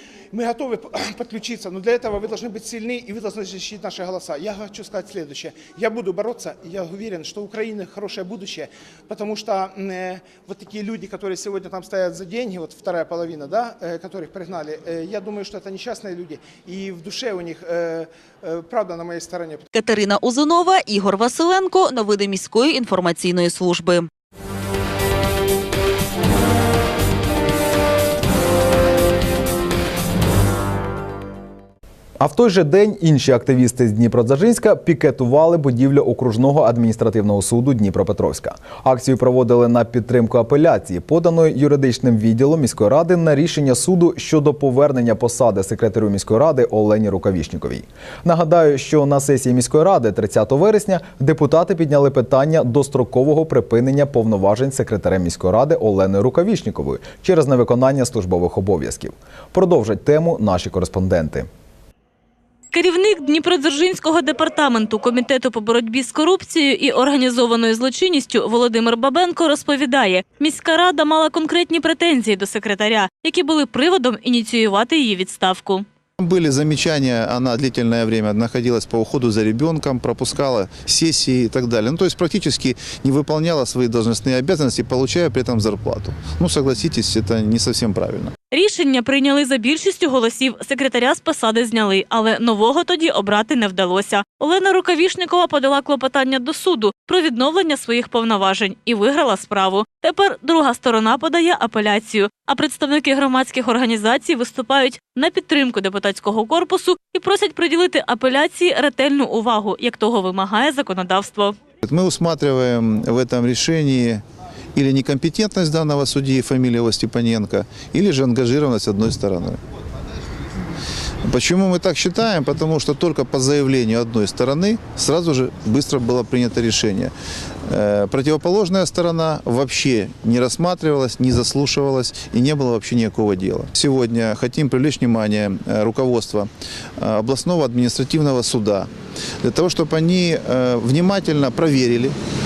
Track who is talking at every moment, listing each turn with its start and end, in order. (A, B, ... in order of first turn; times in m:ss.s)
0:00.3-0:19.6 A
0:19.7-0:24.1 B
0:32.2-1:01.5 C
1:02.7-1:15.9 D
1:16.2-1:28.3 E
1:28.5-1:51.6 D
1:51.8-1:54.2 E
1:54.8-1:59.6 E
2:01.2-2:07.1 E
2:07.7-2:18.9 E
2:19.4-2:22.2 E